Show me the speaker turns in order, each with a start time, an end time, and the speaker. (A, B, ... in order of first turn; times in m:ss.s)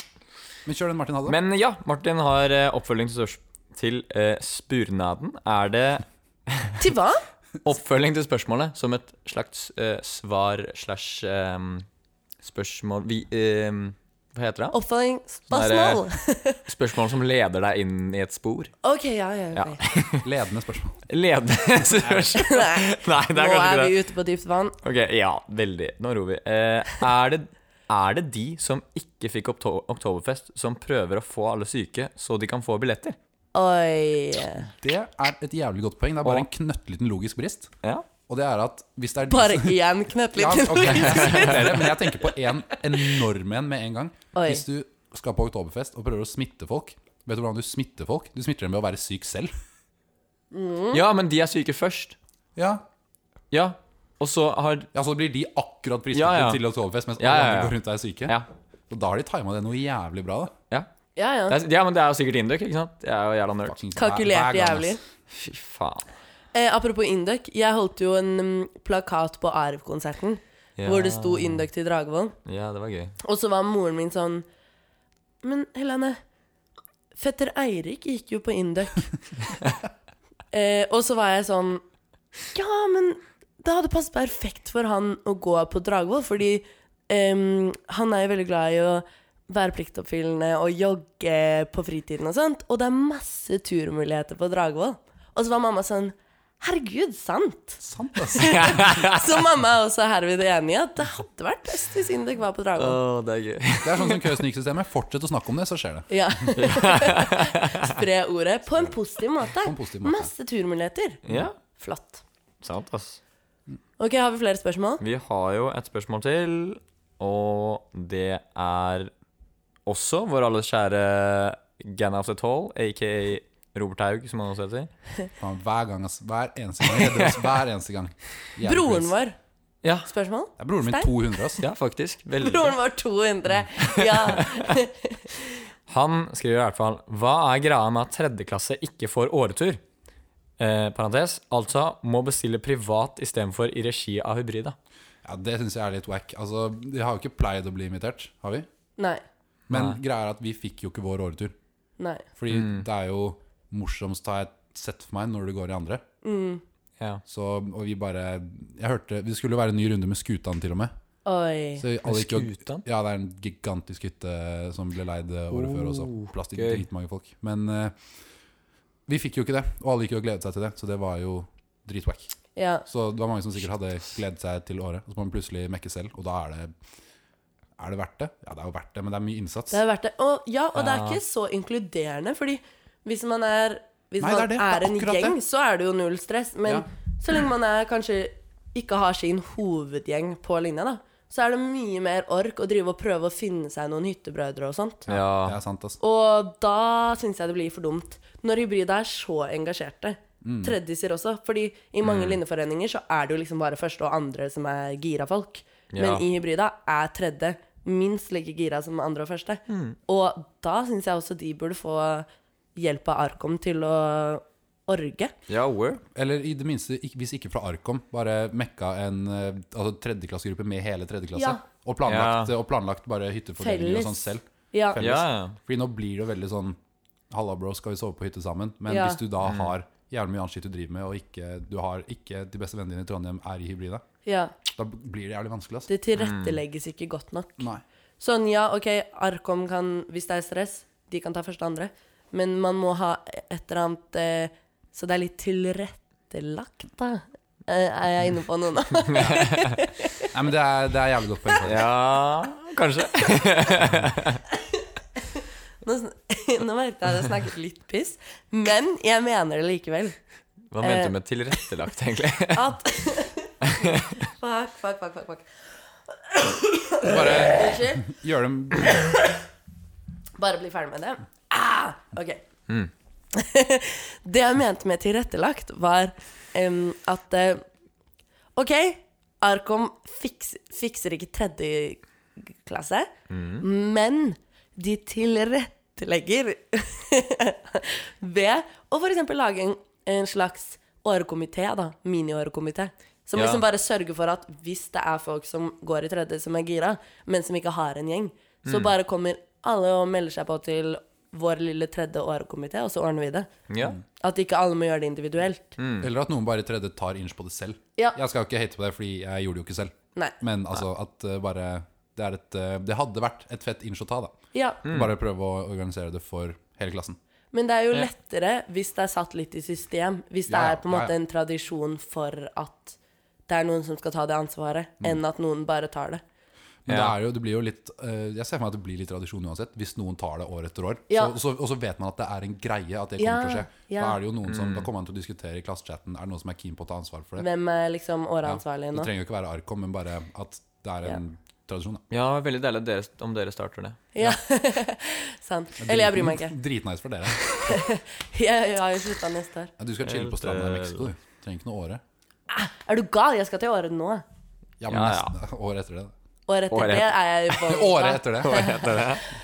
0:00.6-0:01.4 A
0:01.3-0:06.8 B
0:06.8-0:07.2 C
0:07.6-0:11.8 B
0:12.4-0:14.7 B
0:14.7-0:16.6 C
0:15.5-0:16.0 B
0:16.6-0:18.7 B
0:18.8-0:19.8 C
0:19.6-0:20.3 B
0:20.1-0:21.1 A
0:21.1-0:23.9 B
0:21.8-0:22.3 A
0:22.4-0:24.8 C
0:24.8-0:33.2 B
0:33.5-0:34.7 C
0:34.6-0:37.7 A
0:38.3-0:39.8 A
0:39.3-0:41.9 C
0:40.3-0:49.5 A
0:41.1-0:41.6 B
0:44.3-0:44.6 C
0:50.5-0:51.0 C
0:50.9-0:52.2 B
0:52.6-0:52.8 A
0:53.5-0:54.9 B
0:54.9-0:58.4 A
0:56.1-0:56.6 B
0:57.2-0:58.5 B
0:58.9-1:00.5 A
1:01.2-1:01.6 C
1:01.5-1:03.8 B
1:03.6-1:05.0 A
1:04.0-1:05.0 C
1:05.3-1:06.0 B
1:06.5-1:12.4 C
1:10.8-1:11.6 B
1:12.4-1:13.2 B
1:13.2-1:14.4 C
1:15.4-1:16.2 C
1:17.1-1:19.1 C
1:20.5-1:21.8 C
1:22.5-1:37.8 C
1:37.8-1:39.0 A
1:38.3-1:43.0 C
1:38.4-1:39.2 B
1:42.8-1:44.4 B
1:43.8-1:46.6 A
1:46.1-1:52.2 C
1:46.6-1:47.9 B
1:49.5-1:50.3 A
1:51.2-1:51.6 B
1:52.6-1:53.2 B
1:54.0-1:55.0 C
1:55.0-1:59.1 B
1:59.8-2:04.9 B
2:05.4-2:09.1 A
2:06.9-2:07.4 B
2:08.6-2:09.4 C
2:09.8-2:10.1 B
2:10.0-2:11.1 C
2:10.6-2:11.6 A
2:11.6-2:12.8 B
2:12.4-2:15.2 C
2:13.8-2:14.7 B
2:15.9-2:19.8 B
2:20.6-2:24.8 B
2:25.2-2:28.7 A
2:29.0-2:29.2 C
2:29.7-2:30.0 B
2:29.7-2:31.5 A
2:32.0-2:32.2 C
2:32.4-2:36.0 A
2:32.5-2:32.8 B
2:36.2-2:36.6 C
2:37.2-2:40.9 A
2:41.2-2:41.8 C
2:41.8-2:48.0 A
2:42.0-2:42.8 B
2:45.5-2:46.8 B
2:49.1-2:52.3 A
2:52.6-2:52.8 C
2:52.9-2:56.7 A
2:57.8-2:59.8 A
2:59.7-3:15.1 C
3:00.7-3:01.2 B
3:04.2-3:05.4 A
3:15.1-3:15.6 B
3:15.1-3:16.0 A
3:16.0-3:35.3 C
3:20.4-3:20.8 A
3:22.0-3:22.4 B
3:25.9-3:26.2 B
3:29.7-3:30.0 B
3:35.5-3:36.0 B
3:36.1-3:46.8 A
3:41.3-3:41.6 C
3:42.0-3:42.5 B
3:43.6-3:45.0 C
3:45.0-3:45.6 B
3:47.3-3:54.0 A
3:48.9-3:49.2 C
3:49.4-3:49.7 B
3:54.2-3:54.5 C
3:54.7-3:55.9 A
3:55.9-3:57.7 C
3:56.2-3:56.6 B
3:58.2-4:10.3 C
4:09.1-4:09.7 B
4:10.3-4:11.9 A
4:11.6-4:14.4 B
4:15.4-4:20.2 C
4:20.7-4:22.7 B
4:20.8-4:21.1 C
4:22.5-4:25.5 C
4:23.6-4:24.2 B
4:26.1-4:28.1 C
4:27.0-4:29.1 A
4:30.4-4:32.4 C
4:33.3-4:37.6 C
4:38.5-5:03.5 C
4:43.3-4:43.6 B
4:53.4-4:53.6 B
4:58.6-4:58.9 B
5:03.7-5:04.0 B
5:04.2-5:05.8 C
5:05.8-5:06.1 B
5:06.0-5:17.2 A
5:14.5-5:14.8 C
5:14.8-5:15.1 B
5:17.5-5:23.0 C
5:20.5-5:21.1 A
5:23.5-5:26.2 C
5:26.8-5:37.5 A
5:26.9-5:27.1 B
5:31.1-5:31.4 C
5:33.2-5:34.2 C
5:34.4-5:34.9 B
5:37.4-5:39.1 C
5:38.4-5:42.0 A
5:42.1-5:44.0 B
5:44.1-5:46.5 C
5:45.8-5:47.8 A
5:47.6-5:49.7 C
5:49.8-5:52.0 A
5:50.0-5:51.1 B
5:52.5-5:54.2 C
5:54.8-5:56.1 A
5:54.9-5:55.3 B
5:56.5-5:59.2 C
5:56.7-5:57.7 B
5:57.6-5:58.7 A
5:58.4-5:59.3 B